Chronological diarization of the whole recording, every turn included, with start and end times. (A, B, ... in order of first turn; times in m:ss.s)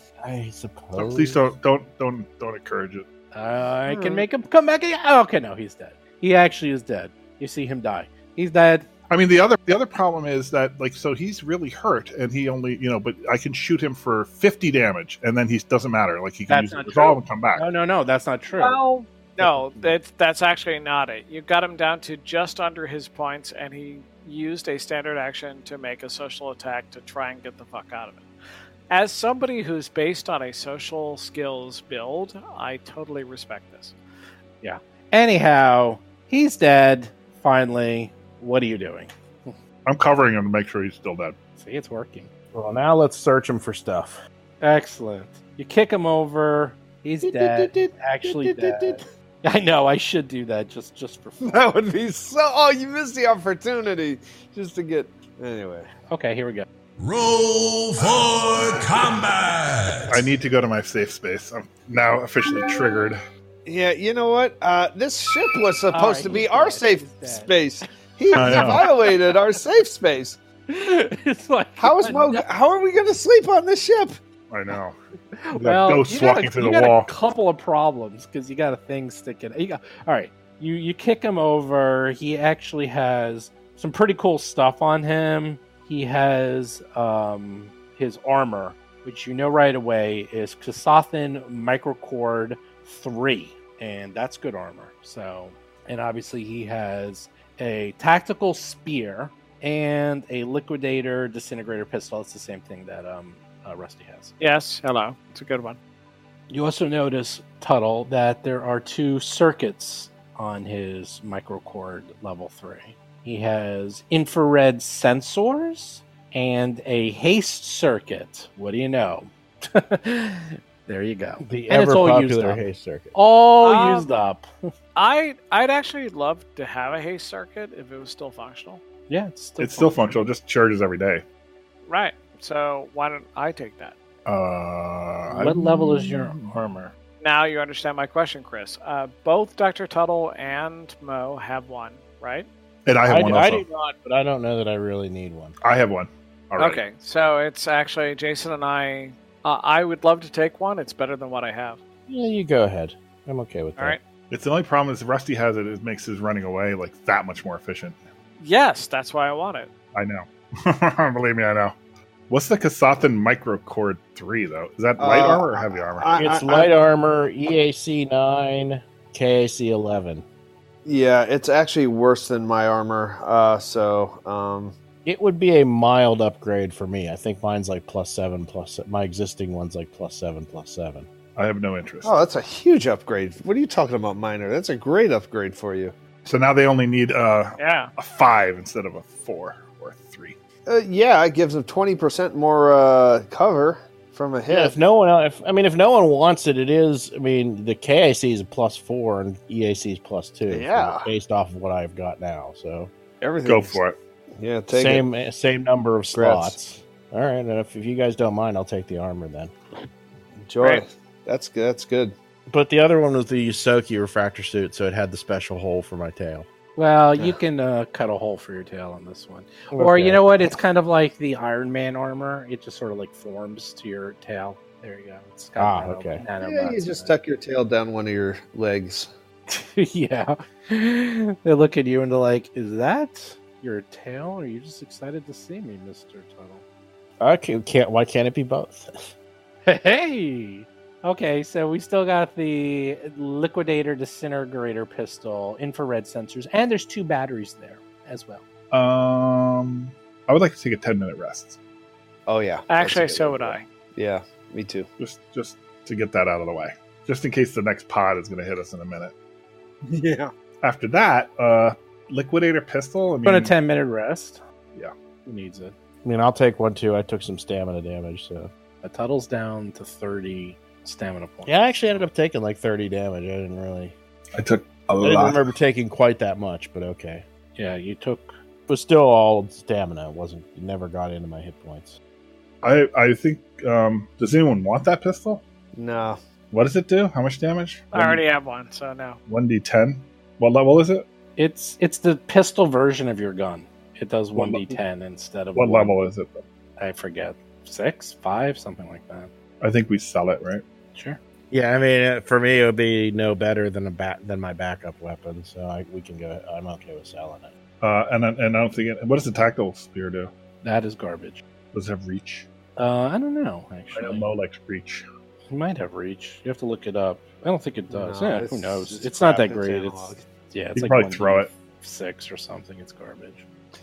0:00.2-0:01.5 A
0:00.9-0:03.0 B
0:03.3-0:08.9 C
0:03.9-0:04.2 D
0:09.1-0:17.6 B
0:16.5-0:18.8 C
0:18.5-0:28.2 E
0:19.4-0:20.0 C
0:28.9-0:34.0 E
0:34.6-0:39.6 C
0:39.8-0:41.4 B
0:41.6-0:42.3 C
0:42.5-0:44.2 A
0:44.6-0:51.6 C
0:47.2-0:49.0 D
0:51.4-0:55.9 D
0:56.1-0:56.6 C
0:57.0-1:00.3 F
1:00.1-1:03.2 B
1:03.6-1:10.4 D
1:05.9-1:07.5 C
1:08.3-1:09.3 C
1:08.3-1:08.9 B
1:10.7-1:12.5 C
1:11.8-1:14.2 D
1:14.5-1:14.9 B
1:15.4-1:44.3 C
1:15.5-1:17.1 B
1:44.4-1:45.8 E
1:46.5-2:02.6 C
2:01.4-2:03.1 A
2:03.1-2:04.5 C
2:03.6-2:04.1 E
2:05.0-2:08.8 E
2:09.1-2:10.2 C
2:09.6-2:11.2 B
2:11.8-2:13.9 E
2:14.2-2:16.6 B
2:15.3-2:16.9 C
2:17.2-2:22.5 E
2:22.8-2:23.6 B
2:23.0-2:25.5 A
2:25.6-2:26.8 B
2:26.6-2:31.8 E
2:32.1-2:34.0 A
2:34.3-2:38.0 B
2:38.4-2:39.7 E
2:39.9-2:41.8 B
2:42.3-2:46.1 B
2:45.0-2:46.7 D
2:46.1-2:50.2 A
2:50.8-2:54.8 D
2:55.0-3:01.1 A
3:01.4-3:02.1 B
3:02.0-3:06.0 D
3:06.2-3:10.3 B
3:07.6-3:07.9 E
3:10.7-3:14.8 D
3:14.5-3:22.9 A
3:20.5-3:21.1 D
3:23.2-3:23.8 D
3:23.4-3:24.0 B
3:24.4-3:25.0 D
3:24.7-3:29.5 A
3:26.1-3:26.6 D
3:30.4-3:32.1 D
3:32.5-3:36.5 A
3:36.8-3:47.1 C
3:39.7-3:40.6 A
3:45.6-3:46.2 A
3:46.4-3:49.1 D
3:49.5-3:56.6 C
3:57.2-3:59.1 A
3:59.6-4:08.4 C
4:08.7-4:11.6 B
4:12.3-4:14.9 D
4:12.7-4:13.6 E
4:15.0-4:19.1 B
4:19.9-4:20.3 D
4:20.6-4:23.5 B
4:23.2-4:24.4 C
4:25.2-4:25.7 C
4:26.0-4:28.5 A
4:28.8-4:31.6 C
4:31.4-4:34.0 A
4:34.3-4:35.5 B
4:35.0-4:37.2 A
4:37.6-4:38.3 C
4:38.7-4:42.0 A
4:42.6-4:45.4 B
4:45.7-4:46.2 D
4:46.5-4:48.2 B
4:47.9-4:49.2 E
4:49.3-4:51.0 B
4:51.4-4:55.9 C
4:54.4-4:54.8 B
4:55.5-4:56.4 B
4:56.8-4:59.3 C
4:59.6-5:00.6 B
5:01.5-5:07.5 A
5:07.8-5:10.3 B
5:10.6-5:11.4 C
5:11.7-5:12.5 B
5:12.8-5:14.2 C
5:13.9-5:15.0 B
5:15.5-5:23.4 C
5:17.9-5:20.2 D
5:20.7-5:21.5 B